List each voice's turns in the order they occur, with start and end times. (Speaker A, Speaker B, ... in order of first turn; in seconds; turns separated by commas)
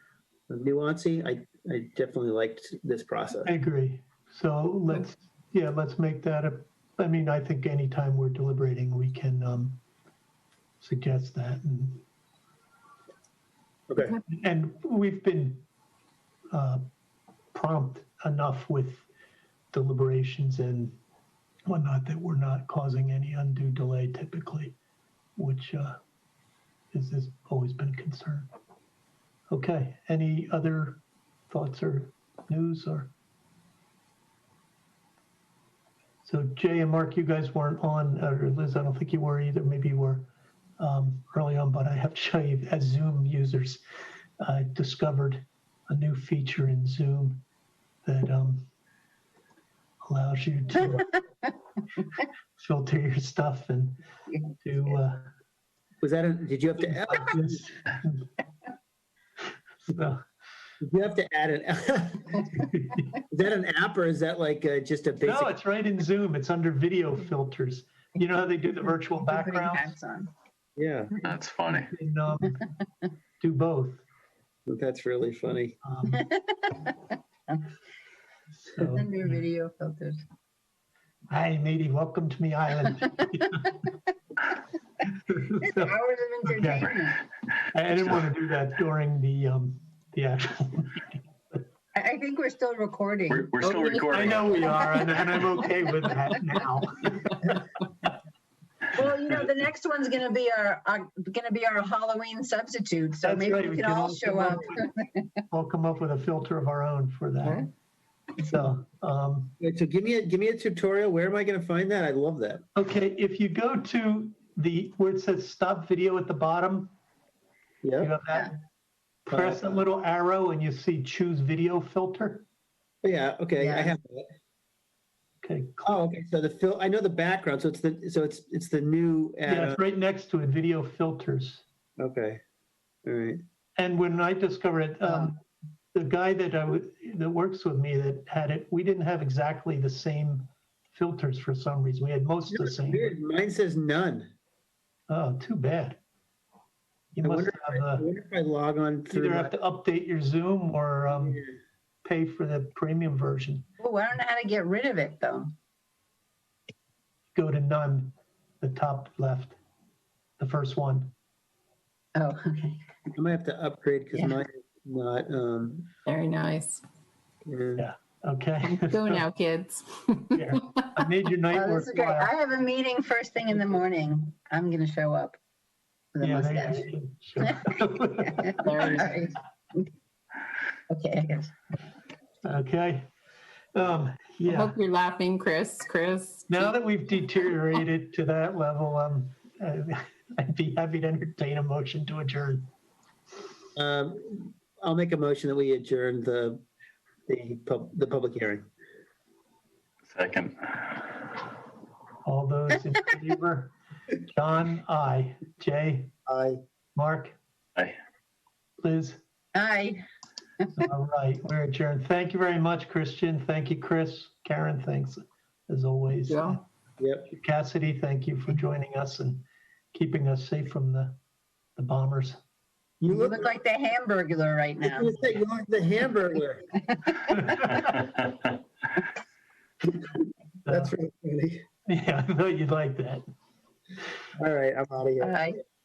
Speaker A: 0.5-3.5, Speaker B: 3.4-9.8, Speaker B: 10.8-12.0, Speaker A: 13.9-14.2, Speaker B: 14.2-15.6, Speaker B: 16.5-16.8, Speaker B: 17.5-19.1, Speaker B: 19.7-20.9, Speaker B: 21.7-24.8, Speaker B: 25.4-26.0, Speaker B: 26.9-28.5, Speaker B: 29.5-33.1, Speaker B: 36.2-43.8, Speaker B: 44.4-47.4, Speaker B: 48.0-48.7, Speaker B: 50.1-51.2, Speaker B: 52.6-54.0, Speaker B: 54.6-55.3, Speaker A: 56.0-57.6, Speaker B: 57.0-58.3, Speaker B: 59.9-60.2, Speaker A: 60.8-62.5, Speaker A: 63.2-65.5, Speaker B: 65.2-70.0, Speaker C: 69.2-70.3, Speaker A: 70.8-71.1, Speaker D: 71.2-71.9, Speaker B: 71.7-72.6, Speaker B: 73.4-74.0, Speaker A: 74.7-75.8, Speaker B: 75.8-76.3, Speaker C: 76.2-77.7, Speaker B: 78.7-79.4, Speaker C: 78.8-80.2, Speaker B: 81.3-83.8, Speaker B: 85.1-87.0, Speaker C: 85.6-87.2, Speaker B: 87.7-91.6, Speaker C: 91.9-93.6, Speaker D: 93.3-94.6, Speaker E: 93.6-95.3, Speaker B: 94.1-97.6, Speaker C: 94.6-95.1, Speaker C: 98.9-105.3, Speaker B: 103.2-104.9, Speaker B: 105.5-107.7, Speaker B: 108.4-109.5, Speaker A: 109.6-112.6, Speaker B: 112.7-116.9, Speaker A: 117.8-118.1, Speaker B: 118.0-118.5, Speaker B: 119.3-122.4, Speaker A: 119.3-119.8, Speaker A: 123.0-124.3, Speaker C: 123.6-123.9, Speaker B: 125.4-126.0, Speaker A: 125.8-129.8, Speaker B: 129.4-131.6, Speaker A: 132.0-132.4, Speaker A: 133.1-133.4, Speaker B: 133.8-135.4, Speaker B: 135.9-143.1, Speaker A: 142.5-144.3, Speaker B: 145.1-146.0, Speaker B: 147.1-148.1, Speaker A: 147.2-149.5, Speaker B: 149.1-151.4, Speaker A: 151.1-151.6, Speaker B: 152.0-153.6, Speaker C: 153.8-155.5, Speaker B: 157.3-159.6, Speaker B: 160.4-161.1, Speaker C: 162.2-162.8, Speaker A: 163.1-165.9, Speaker E: 166.1-166.8, Speaker A: 167.5-167.8, Speaker B: 167.8-169.2, Speaker E: 168.6-170.6, Speaker B: 170.3-172.3, Speaker C: 171.5-175.4, Speaker C: 176.1-176.9, Speaker B: 176.2-179.1, Speaker C: 177.4-179.8, Speaker E: 178.6-179.2, Speaker C: 180.9-181.5, Speaker B: 182.4-183.1, Speaker B: 183.7-184.8, Speaker E: 184.5-186.7, Speaker B: 186.5-192.7, Speaker A: 193.8-196.6, Speaker A: 197.3-198.7, Speaker D: 200.1-201.2, Speaker B: 202.2-206.1, Speaker A: 206.3-206.6, Speaker B: 206.9-207.4, Speaker B: 208.8-209.2, Speaker C: 209.5-210.0, Speaker B: 210.8-216.6, Speaker E: 216.3-216.6, Speaker A: 217.0-217.3, Speaker B: 217.3-221.2, Speaker B: 221.8-222.4, Speaker A: 223.0-223.5, Speaker C: 223.1-225.1, Speaker A: 224.8-226.7, Speaker C: 226.8-227.8, Speaker B: 227.3-228.0, Speaker D: 227.8-228.3, Speaker B: 230.7-230.9, Speaker A: 230.7-231.6, Speaker B: 231.9-233.2, Speaker A: 234.4-235.5, Speaker C: 235.2-235.6